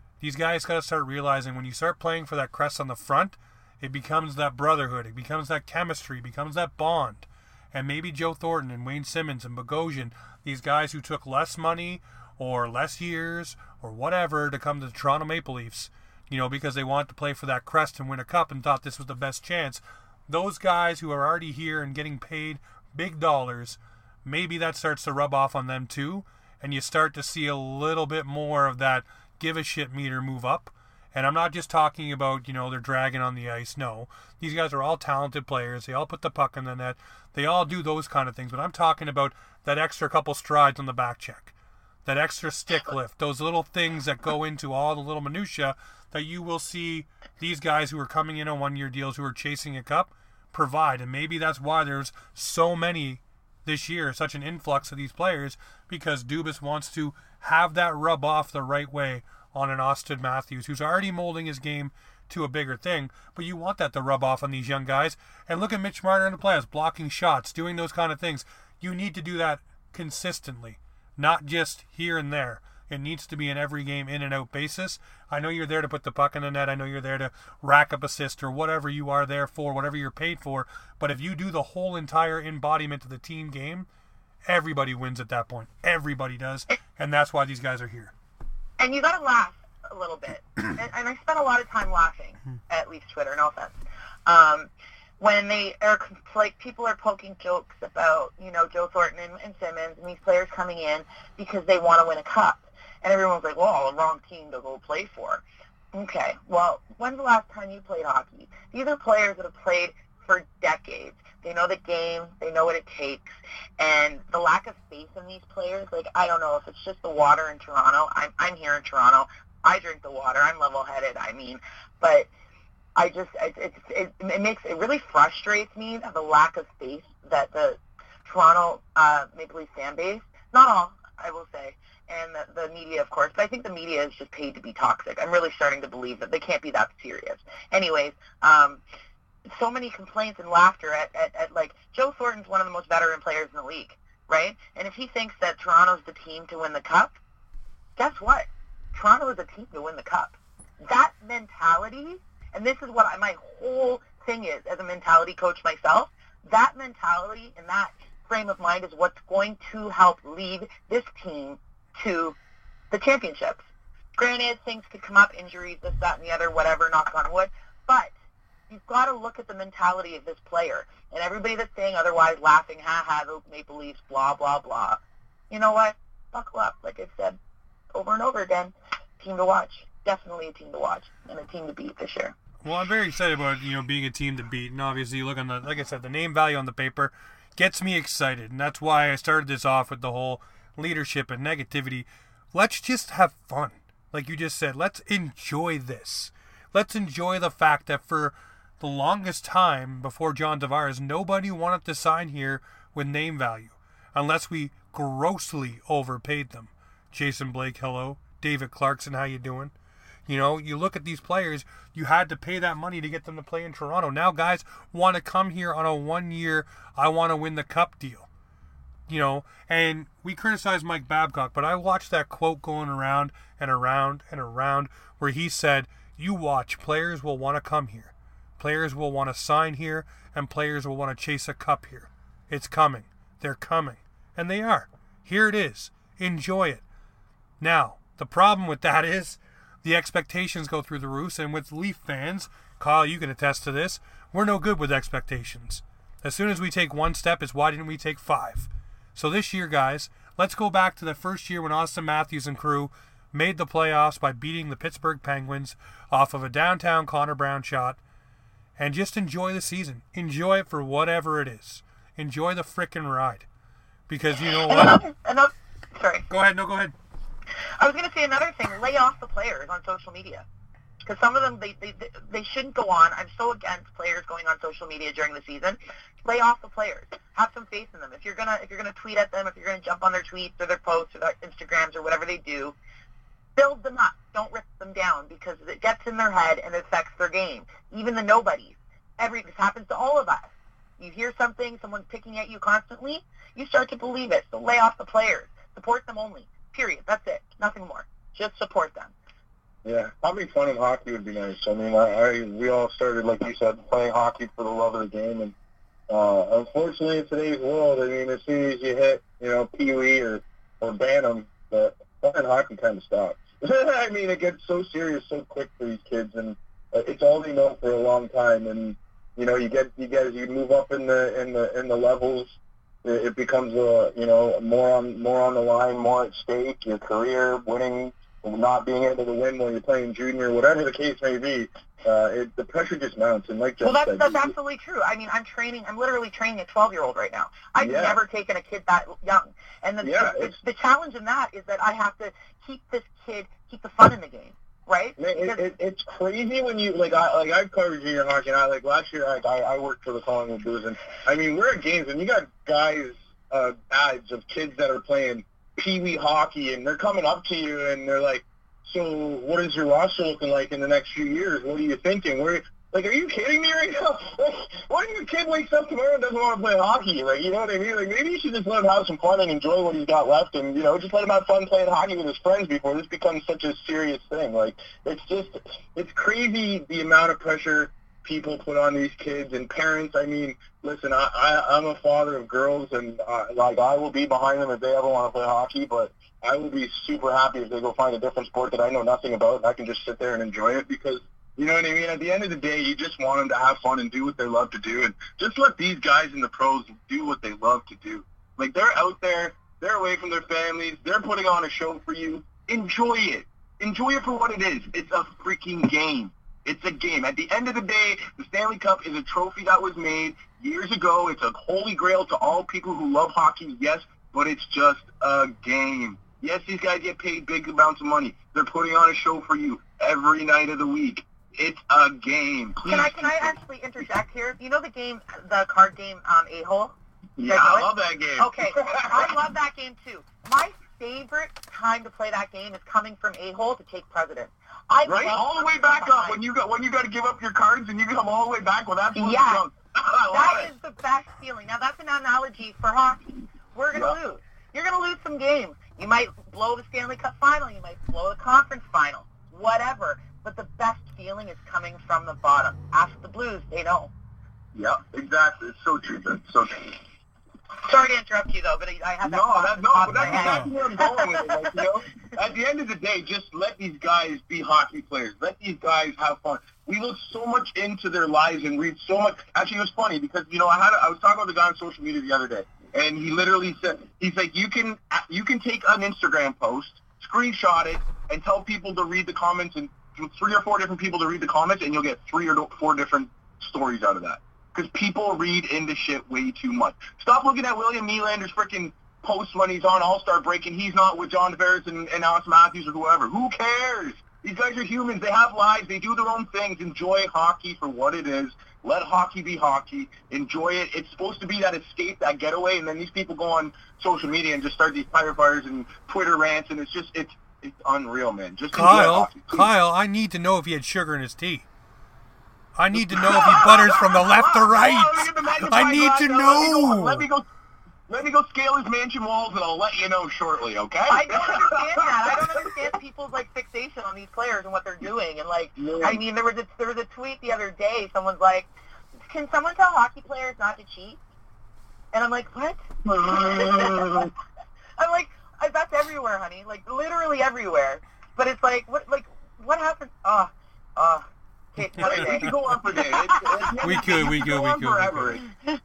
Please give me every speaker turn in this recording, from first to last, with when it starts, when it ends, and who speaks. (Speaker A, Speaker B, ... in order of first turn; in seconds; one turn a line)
Speaker A: 0.2-83.9
Speaker A: 84.5-88.1
Speaker B: 88.8-93.7
Speaker B: 94.2-122.3
Speaker B: 123.0-138.8
Speaker B: 139.5-147.2
Speaker B: 148.0-162.4
Speaker B: 162.9-163.7
Speaker B: 164.2-168.1
Speaker B: 168.7-177.4
Speaker B: 177.9-182.3
Speaker A: 182.6-209.7
Speaker A: 210.3-218.3
Speaker A: 219.1-236.8
Speaker A: 237.6-258.0
Speaker A: 258.8-263.5
Speaker A: 264.1-265.0
Speaker B: 264.5-266.2
Speaker A: 266.3-266.9
Speaker B: 267.8-270.4
Speaker B: 271.0-282.8
Speaker B: 283.6-299.1
Speaker C: 299.8-305.5
Speaker C: 306.1-334.5
Speaker B: 333.8-345.6
Speaker C: 337.8-338.2
Speaker C: 340.0-340.5
Speaker C: 345.2-423.6
Speaker B: 422.8-436.4
Speaker C: 427.4-429.3
Speaker C: 435.0-440.7
Speaker B: 439.1-439.7
Speaker B: 440.3-454.1
Speaker C: 454.7-456.9
Speaker B: 457.8-461.8
Speaker C: 459.2-509.7
Speaker A: 460.3-460.7
Speaker A: 508.7-511.6
Speaker A: 512.7-517.2
Speaker C: 512.9-517.5
Speaker C: 518.1-522.8
Speaker B: 521.1-528.7
Speaker C: 525.8-526.2
Speaker B: 529.3-531.2
Speaker B: 532.1-534.3
Speaker C: 533.0-534.3
Speaker B: 535.0-543.8
Speaker C: 542.0-545.5
Speaker A: 543.8-545.4